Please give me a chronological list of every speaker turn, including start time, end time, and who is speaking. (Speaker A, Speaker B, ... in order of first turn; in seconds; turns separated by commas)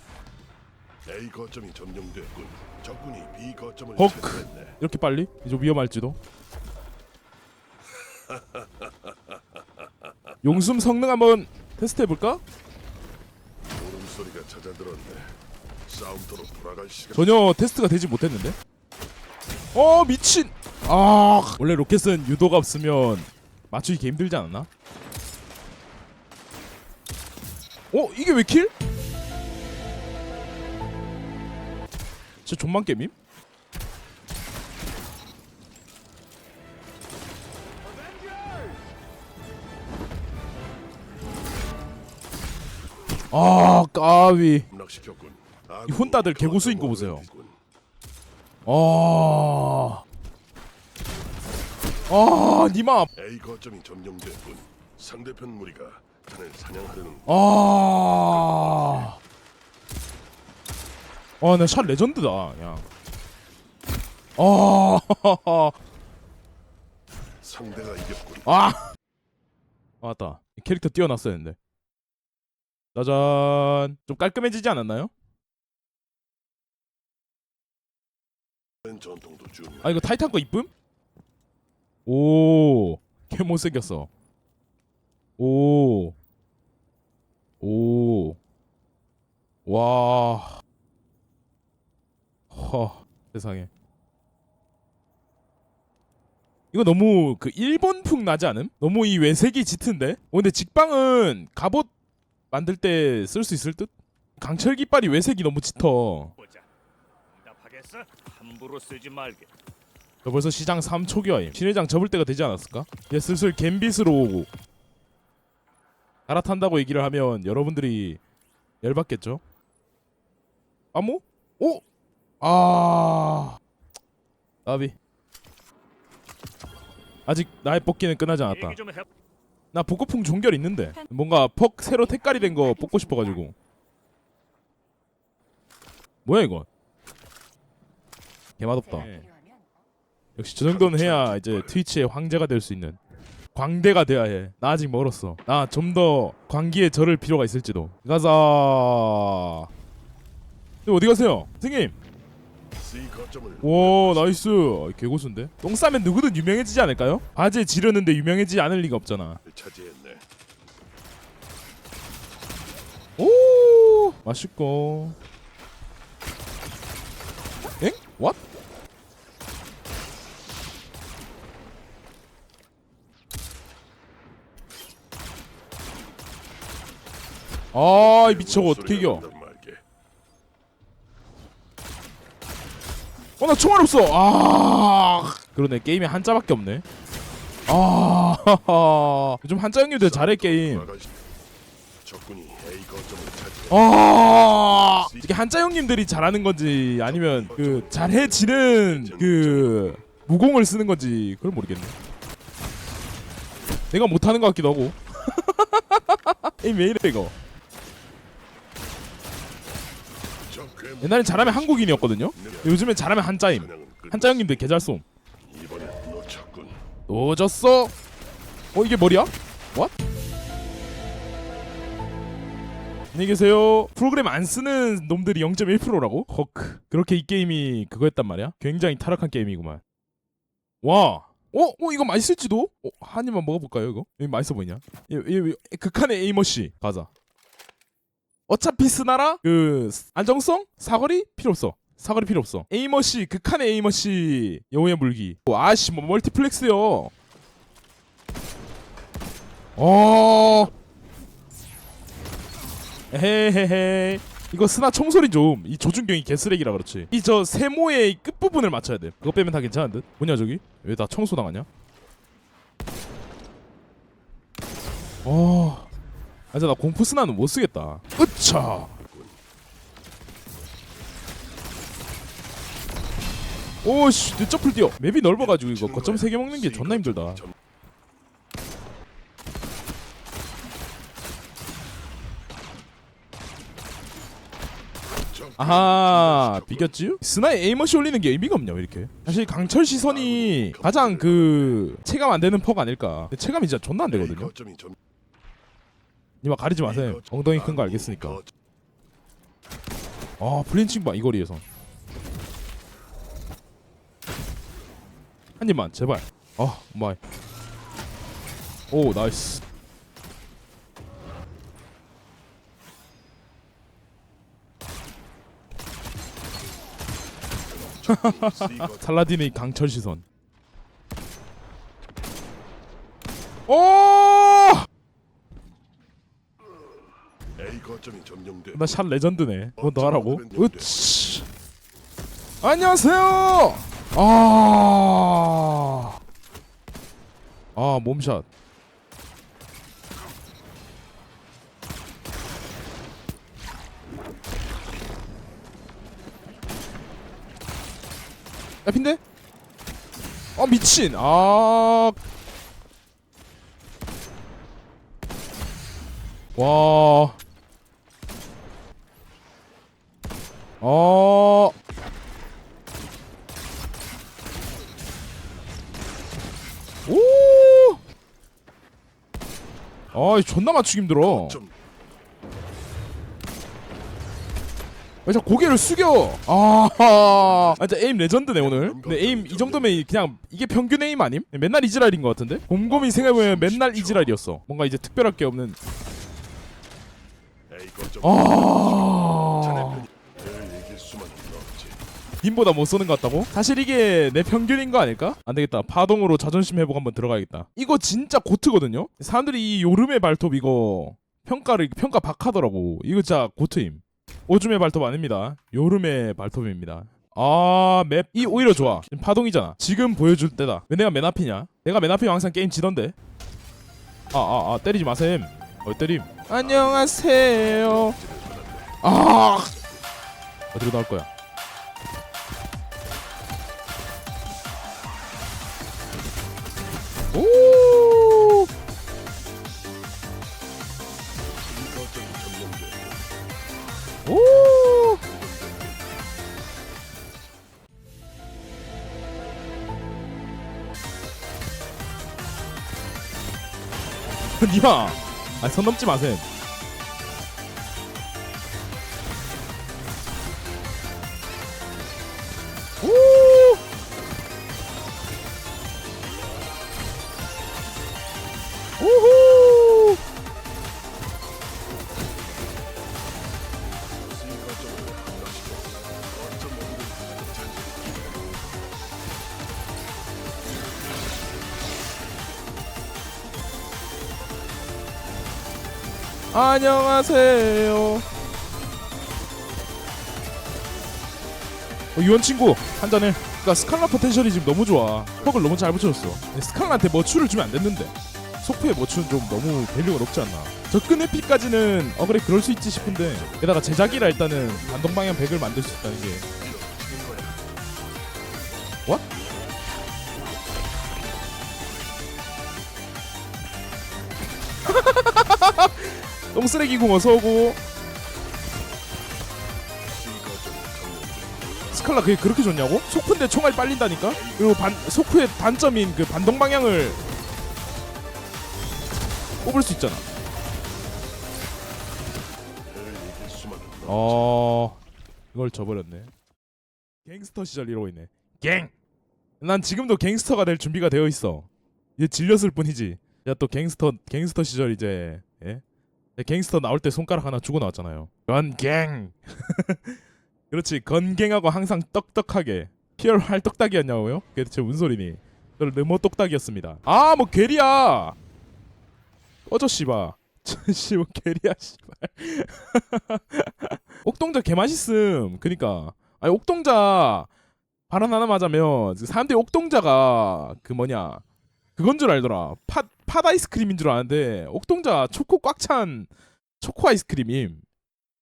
Speaker A: 1.1-4.8, Speaker B: 4.0-6.2, Speaker A: 8.0-10.6, Speaker B: 10.4-12.4, Speaker A: 13.7-15.3, Speaker A: 15.9-17.3, Speaker B: 17.1-18.6, Speaker B: 19.7-24.7, Speaker B: 27.9-28.7, Speaker B: 32.4-33.1, Speaker B: 43.3-44.7, Speaker A: 44.7-47.6, Speaker B: 45.9-47.2, Speaker B: 48.7-50.0, Speaker B: 52.1-53.1, Speaker A: 53.1-57.4, Speaker B: 57.2-59.2, Speaker A: 58.5-59.0, Speaker B: 61.4-62.9, Speaker B: 64.4-65.8, Speaker A: 67.4-68.5, Speaker B: 68.5-68.8, Speaker B: 70.0-71.6, Speaker B: 72.9-75.1, Speaker A: 78.8-80.1, Speaker B: 79.8-80.7, Speaker B: 82.1-84.1, Speaker B: 85.4-86.2, Speaker B: 87.6-88.4, Speaker B: 89.7-90.6, Speaker B: 92.5-93.7, Speaker B: 96.7-101.9, Speaker B: 102.5-106.3, Speaker C: 107.4-109.5, Speaker B: 110.2-114.5, Speaker B: 116.3-118.2, Speaker B: 118.8-119.4, Speaker B: 120.9-121.8, Speaker B: 122.4-123.6, Speaker B: 124.7-125.0, Speaker B: 127.3-128.8, Speaker C: 128.8-129.0, Speaker B: 129.7-133.6, Speaker B: 136.2-136.7, Speaker B: 138.6-139.3, Speaker B: 140.4-143.0, Speaker A: 140.7-141.8, Speaker B: 143.5-149.7, Speaker B: 150.8-151.9, Speaker A: 152.8-154.4, Speaker B: 153.6-159.4, Speaker A: 159.4-160.2, Speaker B: 163.2-165.2, Speaker B: 167.8-168.4, Speaker B: 177.7-179.2, Speaker A: 177.9-179.8, Speaker B: 183.4-186.8, Speaker B: 187.7-190.9, Speaker A: 190.0-191.2, Speaker A: 192.1-193.9, Speaker B: 193.7-201.9, Speaker A: 194.9-195.4, Speaker A: 197.1-199.9, Speaker B: 203.9-207.3, Speaker A: 210.4-212.8, Speaker B: 211.0-215.1, Speaker A: 213.5-214.6, Speaker A: 215.4-216.8, Speaker B: 217.1-217.9, Speaker B: 218.7-219.9, Speaker B: 223.1-229.8, Speaker B: 230.8-237.1, Speaker B: 238.5-247.1, Speaker B: 249.8-250.7, Speaker B: 253.1-261.7, Speaker B: 265.2-265.9, Speaker B: 266.5-268.9, Speaker A: 269.1-269.4, Speaker B: 273.8-277.4, Speaker A: 275.4-277.5, Speaker A: 285.2-286.9, Speaker B: 285.6-294.5, Speaker A: 289.3-291.8, Speaker A: 294.1-294.9, Speaker B: 296.4-298.4, Speaker A: 296.8-298.5, Speaker B: 300.4-301.6, Speaker B: 305.6-307.2, Speaker B: 308.9-309.6, Speaker A: 317.7-319.0, Speaker B: 318.1-320.2, Speaker B: 323.7-324.9, Speaker A: 327.6-328.9, Speaker B: 328.7-331.4, Speaker A: 329.8-331.1, Speaker B: 332.6-336.1, Speaker B: 337.8-338.4, Speaker B: 348.8-349.2, Speaker B: 350.6-352.2, Speaker B: 356.6-357.4, Speaker B: 360.8-361.7, Speaker B: 367.1-368.0, Speaker B: 370.1-371.6, Speaker A: 371.2-371.8, Speaker B: 375.3-385.8, Speaker A: 377.0-377.8, Speaker A: 378.6-380.3, Speaker A: 382.8-384.3, Speaker A: 387.7-392.0, Speaker B: 388.2-390.1, Speaker B: 392.4-413.1, Speaker A: 408.4-409.1, Speaker B: 414.3-418.2, Speaker A: 416.5-420.1, Speaker B: 419.0-419.7, Speaker B: 420.7-421.3, Speaker B: 427.3-428.7, Speaker A: 431.7-433.3, Speaker B: 434.3-435.2, Speaker A: 435.2-436.1, Speaker B: 444.6-446.4, Speaker B: 453.0-453.8, Speaker B: 459.0-460.2, Speaker A: 464.2-468.8, Speaker B: 476.5-478.2, Speaker B: 482.2-496.4, Speaker A: 483.7-484.2, Speaker A: 485.4-486.2, Speaker A: 492.9-497.6, Speaker B: 504.8-507.8, Speaker A: 510.1-512.1, Speaker B: 511.9-517.2, Speaker A: 514.2-514.9, Speaker B: 519.6-520.2, Speaker A: 522.9-524.5, Speaker B: 524.1-525.0, Speaker B: 525.5-526.3, Speaker B: 527.2-528.9, Speaker B: 529.6-535.8, Speaker B: 536.4-540.2, Speaker B: 540.7-548.4, Speaker B: 549.7-557.5, Speaker B: 558.1-561.4, Speaker B: 562.0-566.3, Speaker B: 566.8-567.8